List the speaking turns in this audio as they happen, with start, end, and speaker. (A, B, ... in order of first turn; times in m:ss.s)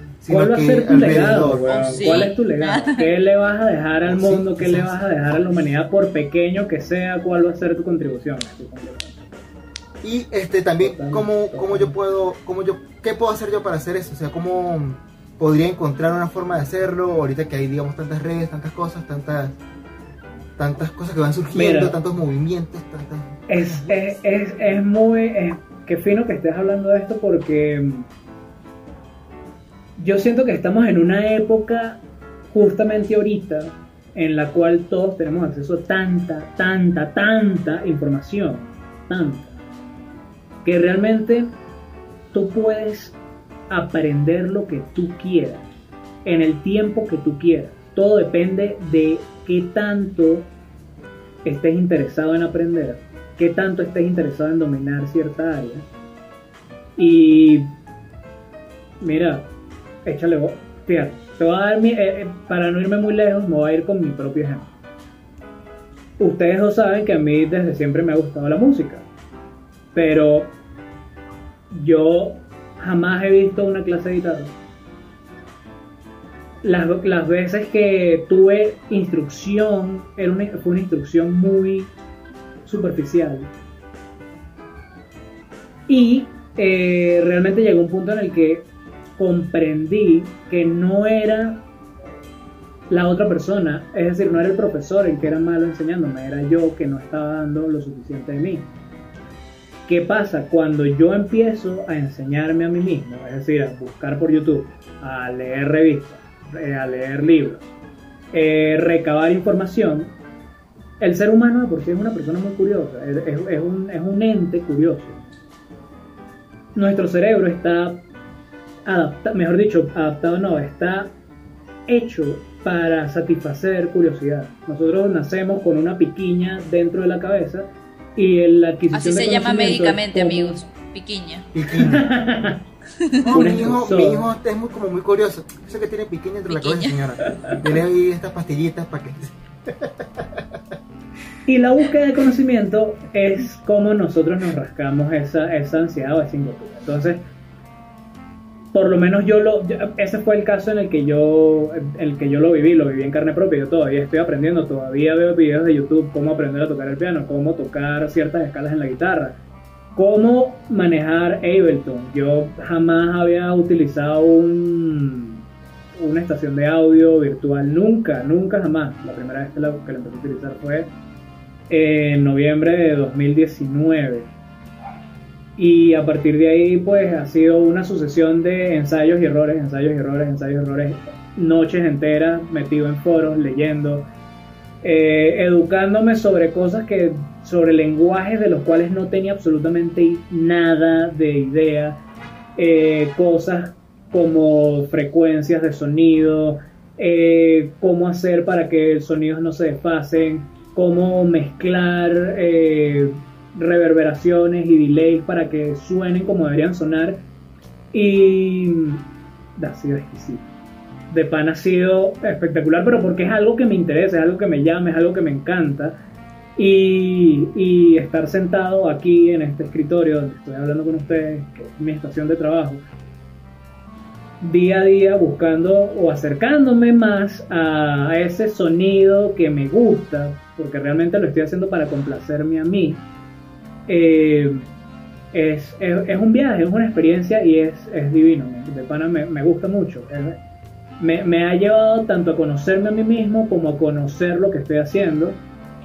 0:00.2-0:02.3 A
0:00.3-0:09.4 B
0:01.6-0:03.1 C
0:04.0-0:05.0 A
0:10.0-0:19.6 A
0:10.8-0:11.9 B
0:20.6-0:24.1 A
0:21.5-0:22.0 B
0:23.5-0:28.1 B
0:30.0-0:32.0 B
0:32.5-0:39.6 B
0:40.6-0:41.5 B
0:42.3-0:43.2 B
0:43.7-0:45.7 B
0:46.2-0:50.5 B
0:51.4-0:55.9 B
0:57.0-0:57.7 B
0:59.0-0:59.5 B
1:00.0-1:04.7 B
1:06.2-1:09.0 B
1:09.9-1:10.5 B
1:11.7-1:14.5 B
1:16.6-1:21.9 B
1:22.6-1:23.5 B
1:25.9-1:28.6 B
1:29.2-1:31.6 B
1:32.9-1:38.7 B
1:39.9-1:47.7 B
1:48.3-1:50.1 B
1:51.0-1:55.2 B
1:56.7-1:58.0 B
1:58.8-2:01.1 B
2:01.9-2:10.6 B
2:08.9-2:11.5 C
2:11.5-2:12.1 A
2:11.7-2:12.6 B
2:13.0-2:13.5 C
2:13.2-2:20.4 A
2:13.3-2:14.3 B
2:16.5-2:17.1 C
2:17.2-2:17.6 B
2:21.4-2:27.2 B
2:28.7-2:39.4 B
2:39.9-2:45.4 B
2:45.9-2:50.9 B
2:51.7-2:54.3 B
2:55.6-3:04.1 B
3:04.8-3:12.0 B
3:12.6-3:27.2 B
3:27.9-3:29.0 B
3:29.6-3:30.5 B
3:31.1-3:36.0 B
3:36.6-3:42.8 B
3:44.4-3:53.0 B
3:53.9-3:54.6 B
3:55.3-4:00.4 B
4:01.0-4:05.4 B